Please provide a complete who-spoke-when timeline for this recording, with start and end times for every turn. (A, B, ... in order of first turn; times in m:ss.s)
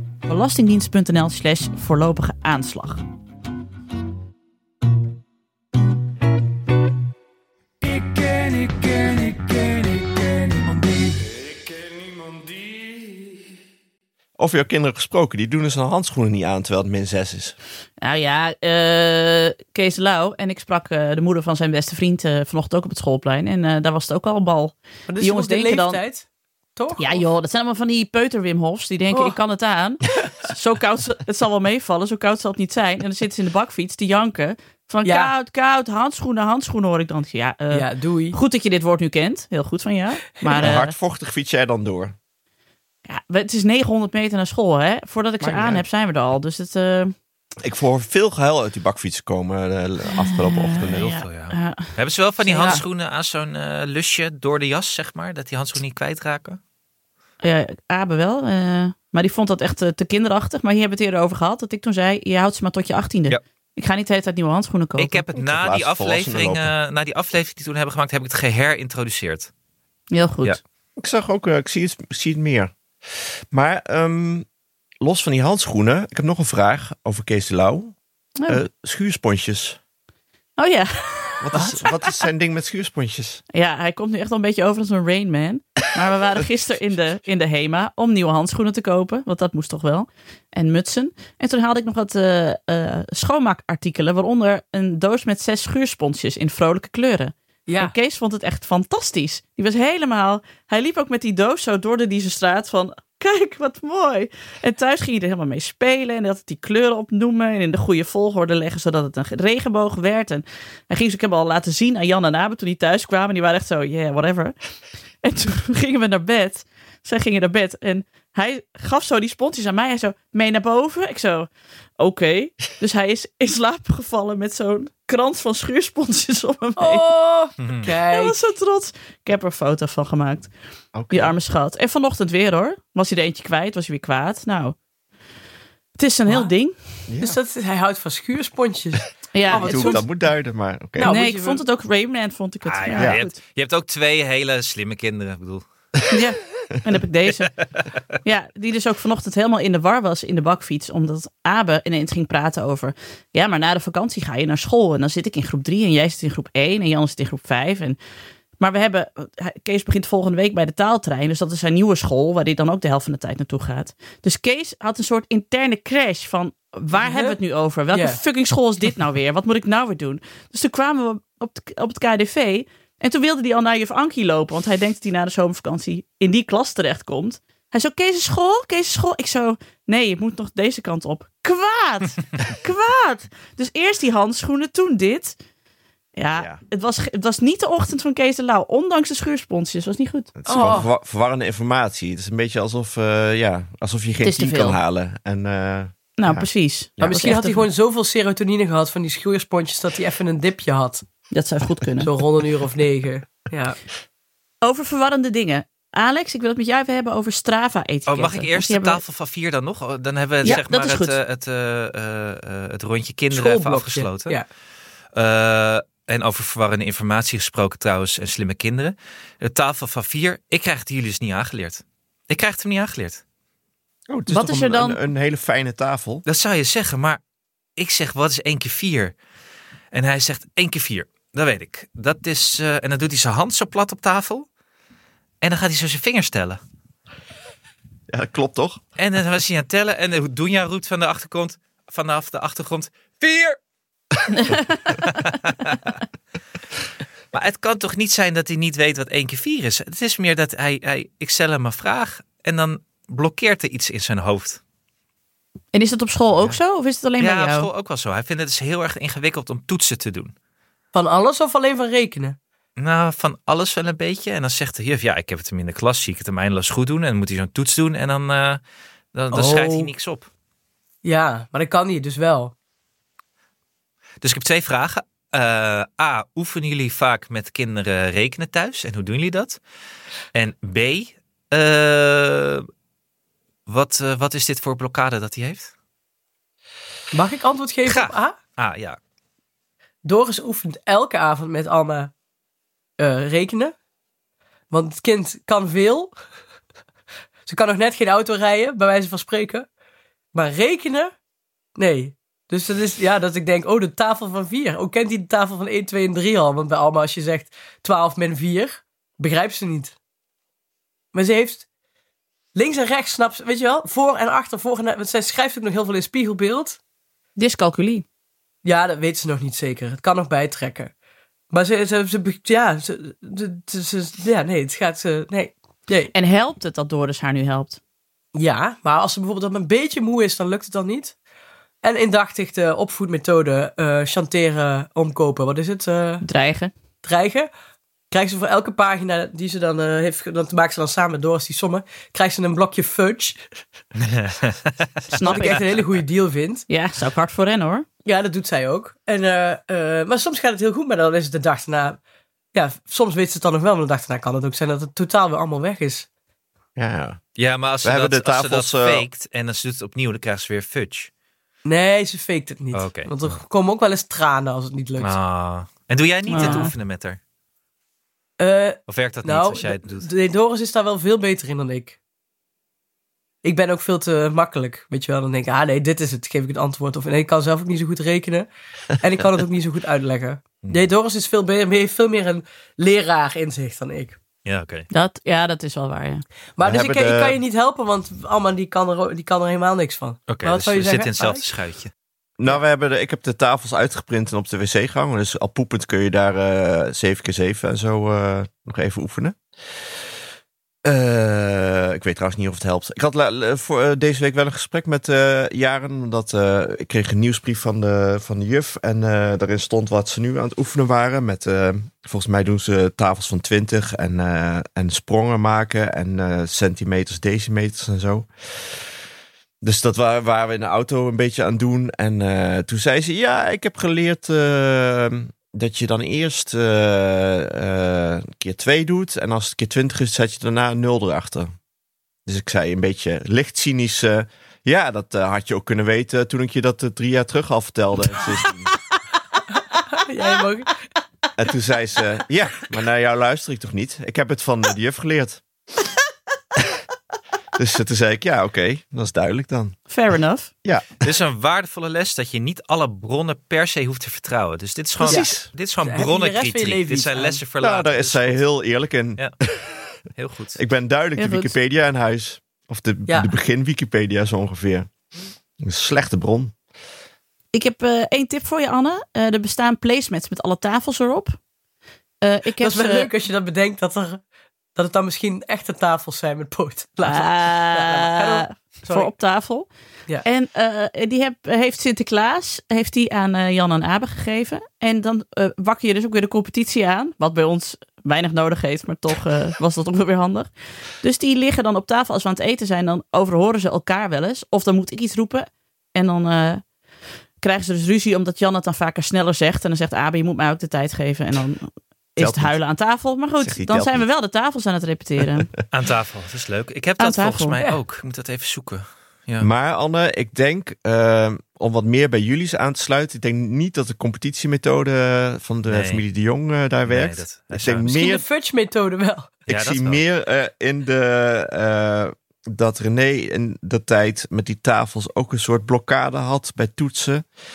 0:00.3-0:03.0 A
0:08.3-0:10.0 B
0:11.4-0:13.1 B
0:14.4-0:17.6 C
0:18.0-0:26.0 A
0:25.1-0:27.2 D
0:27.0-0:41.0 A
0:35.0-0:35.3 D
0:37.7-0:38.4 D
0:40.6-0:42.2 C
0:43.1-0:47.1 A
0:45.5-0:45.8 D
0:47.6-0:51.1 C
0:50.2-0:52.8 A
0:50.8-0:56.6 E
0:52.6-0:52.8 D
0:57.4-1:05.2 A
1:05.0-1:09.5 E
1:05.4-1:06.7 C
1:10.1-1:10.6 A
1:11.0-1:12.7 C
1:13.5-1:14.5 C
1:15.0-1:18.0 C
1:18.5-1:19.8 C
1:20.6-1:22.2 A
1:21.4-1:23.4 C
1:23.5-1:54.5 A
1:37.7-1:38.0 D
1:55.2-2:01.5 A
2:02.0-2:07.1 A
2:06.8-2:08.4 D
2:07.6-2:07.9 E
2:08.1-2:10.5 A
2:10.9-2:11.4 C
2:11.1-2:14.8 A
2:16.0-2:16.8 A
2:17.1-2:17.4 C
2:17.2-2:20.0 D
2:19.3-2:20.0 A
2:19.5-2:21.1 C
2:21.0-2:21.6 D
2:21.0-2:23.4 A
2:22.7-2:25.6 E
2:26.1-2:27.5 A
2:28.2-2:38.0 A
2:38.6-3:05.4 A
2:47.0-2:47.4 D
2:47.9-2:48.2 D
3:06.2-3:10.4 A
3:06.4-3:06.6 C
3:10.4-3:16.5 C
3:10.5-3:10.9 D
3:14.2-3:14.8 A
3:16.2-3:17.7 A
3:17.0-3:17.2 C
3:17.0-3:21.0 D
3:21.3-3:22.1 A
3:22.0-3:23.8 D
3:24.6-3:29.0 A
3:28.1-3:34.4 E
3:30.4-3:31.2 A
3:33.3-3:34.5 D
3:35.1-3:43.2 E
3:44.1-3:46.2 C
3:44.3-3:45.0 A
3:46.3-3:47.2 E
3:47.8-3:49.1 E
3:49.9-3:54.5 E
3:55.4-3:56.6 E
3:58.1-3:58.8 C
3:59.0-4:03.6 E
4:04.3-4:04.8 A
4:04.9-4:05.9 E
4:07.3-4:14.6 E
4:15.7-4:17.7 A
4:17.2-4:20.3 E
4:20.9-4:22.4 D
4:22.8-4:28.6 E
4:29.1-4:30.3 E
4:29.3-4:29.9 D
4:31.0-4:32.5 D
4:34.2-4:39.6 E
4:40.3-4:42.7 E
4:43.7-4:45.7 E
4:47.1-4:48.4 D
4:47.8-4:49.0 E
4:50.0-4:52.1 D
4:53.0-4:53.7 D
4:54.7-4:56.1 D
4:57.5-4:59.7 D
5:00.3-5:01.1 D
5:01.8-5:10.0 D
5:11.1-5:11.6 D
5:12.6-5:16.8 D
5:17.4-5:18.0 A
5:18.6-5:20.9 D
5:21.5-5:26.1 D
5:26.1-5:27.8 A
5:28.4-5:31.2 D
5:31.8-5:36.2 D
5:36.2-5:36.7 A
5:37.0-5:37.5 D
5:38.1-5:43.5 D
5:44.0-5:45.9 E
5:45.1-5:45.7 A
5:45.2-5:46.7 D
5:46.7-5:47.9 A
5:48.0-5:52.0 D
5:52.5-5:56.1 D
5:56.8-5:57.2 C
5:57.4-6:01.1 E
5:57.8-5:59.1 C
6:01.6-6:05.1 D
6:02.7-6:03.4 E
6:05.0-6:07.2 E
6:06.3-6:06.7 A
6:06.3-6:06.7 D
6:08.4-6:12.0 D
6:08.9-6:10.1 E
6:13.4-6:24.2 D
6:24.4-6:24.9 E
6:24.9-6:26.2 A
6:26.6-6:31.5 D
6:26.6-6:27.4 C
6:30.3-6:31.9 E
6:32.4-6:39.4 C
6:40.8-6:58.8 C
6:59.6-7:11.5 C
7:12.3-7:18.7 C
7:19.7-7:20.9 D
7:21.4-7:25.4 C
7:27.6-7:29.8 C
7:29.9-7:30.5 A
7:30.6-7:31.1 C
7:31.0-7:38.4 E
7:35.0-7:35.3 D
7:35.1-7:35.5 C
7:35.8-7:37.4 D
7:37.6-7:39.8 C
7:40.2-7:40.6 E
7:40.6-7:44.9 C
7:41.2-7:41.5 A
7:45.6-7:46.5 C
7:47.5-7:51.4 A
7:52.2-7:53.1 A
7:52.6-7:54.2 D
7:54.8-7:59.1 D
7:57.0-7:59.7 A
8:00.2-8:10.5 A
8:11.0-8:16.6 A
8:17.4-8:25.5 A
8:22.2-8:22.6 C
8:23.4-8:24.1 C
8:25.7-8:29.5 E
8:27.0-8:27.6 A
8:29.4-8:38.2 C
8:35.7-8:36.0 E
8:36.9-8:37.9 E
8:37.9-8:39.4 D
8:39.5-8:47.3 C
8:39.5-8:40.0 E